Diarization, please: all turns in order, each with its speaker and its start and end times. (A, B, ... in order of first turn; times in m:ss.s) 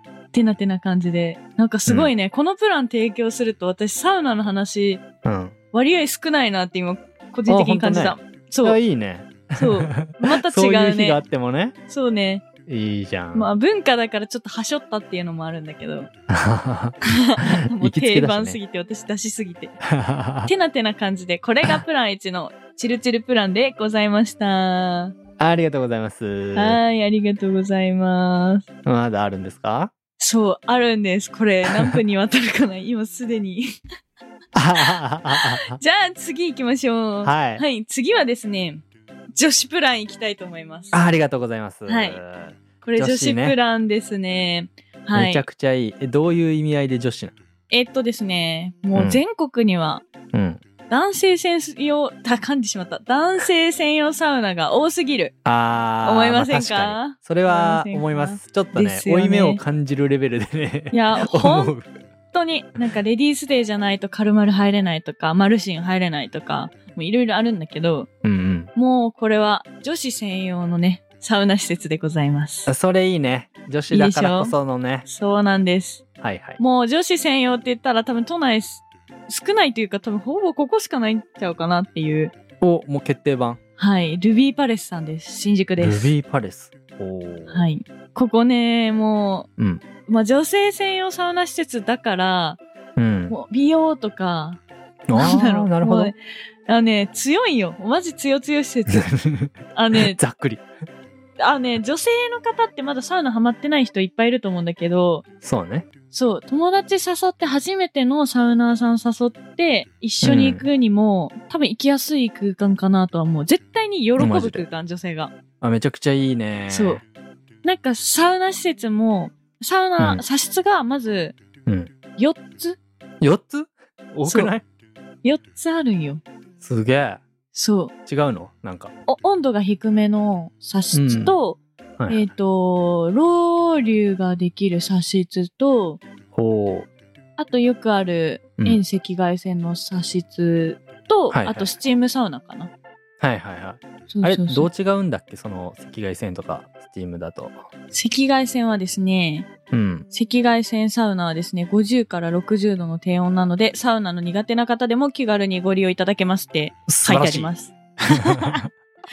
0:00.3-0:05.0 A
0:01.9-0:02.1 B
0:05.2-0:05.6 B
0:05.7-0:08.8 A
0:07.5-0:11.8 B
0:09.6-0:11.2 A
0:11.9-0:12.4 A
0:12.7-0:13.5 B
0:13.3-0:16.1 A
0:16.3-0:18.6 B
0:17.1-0:19.8 A
0:19.8-0:20.5 B
0:20.4-0:25.2 A
0:25.4-0:26.8 B
0:26.5-0:28.6 A
0:28.8-0:29.9 B
0:30.2-0:33.7 A
0:31.7-0:31.9 B
0:34.5-0:35.8 B
0:34.8-0:38.8 A
0:37.2-0:37.6 B
0:39.4-0:41.0 A
0:40.9-0:43.6 B
0:41.9-0:42.2 A
0:42.8-0:45.4 A
0:45.1-0:47.4 B
0:47.7-0:50.0 A
0:48.9-0:49.2 B
0:50.3-0:50.6 B
0:50.9-0:55.3 A
0:55.4-1:02.0 B
0:56.0-0:59.6 A
1:00.9-1:01.8 A
1:02.3-1:08.1 A
1:08.2-1:08.7 B
1:08.8-1:12.7 A
1:12.7-1:15.1 B
1:13.9-1:16.0 A
1:16.2-1:16.6 B
1:16.6-1:22.3 A
1:22.6-1:23.6 B
1:23.8-1:26.1 A
1:25.8-1:27.6 B
1:27.5-1:29.5 A
1:29.6-1:29.8 B
1:30.1-1:32.6 A
1:33.0-1:33.4 B
1:33.3-1:34.6 A
1:35.1-1:36.1 B
1:35.1-1:39.1 A
1:38.9-1:40.6 B
1:39.7-1:40.2 A
1:41.4-1:45.2 A
1:45.4-1:45.9 B
1:46.1-1:55.3 A
1:50.2-1:50.7 B
1:54.2-1:54.7 B
1:55.6-1:57.0 B
1:56.7-1:57.0 A
1:57.6-2:01.4 A
2:01.7-2:01.9 B
2:02.2-2:02.8 A
2:03.2-2:04.6 B
2:04.2-2:04.5 A
2:05.2-2:06.2 A
2:06.6-2:07.2 B
2:07.5-2:07.9 A
2:08.1-2:08.9 B
2:09.1-2:16.0 A
2:10.9-2:11.4 B
2:12.0-2:12.3 B
2:16.3-2:16.9 B
2:17.4-2:22.7 A
2:21.3-2:21.7 B
2:23.2-2:27.6 B
2:24.1-2:24.7 A
2:27.9-2:29.5 A
2:29.7-2:30.1 B
2:30.1-2:38.6 A
2:36.9-2:37.5 B
2:38.1-2:38.6 B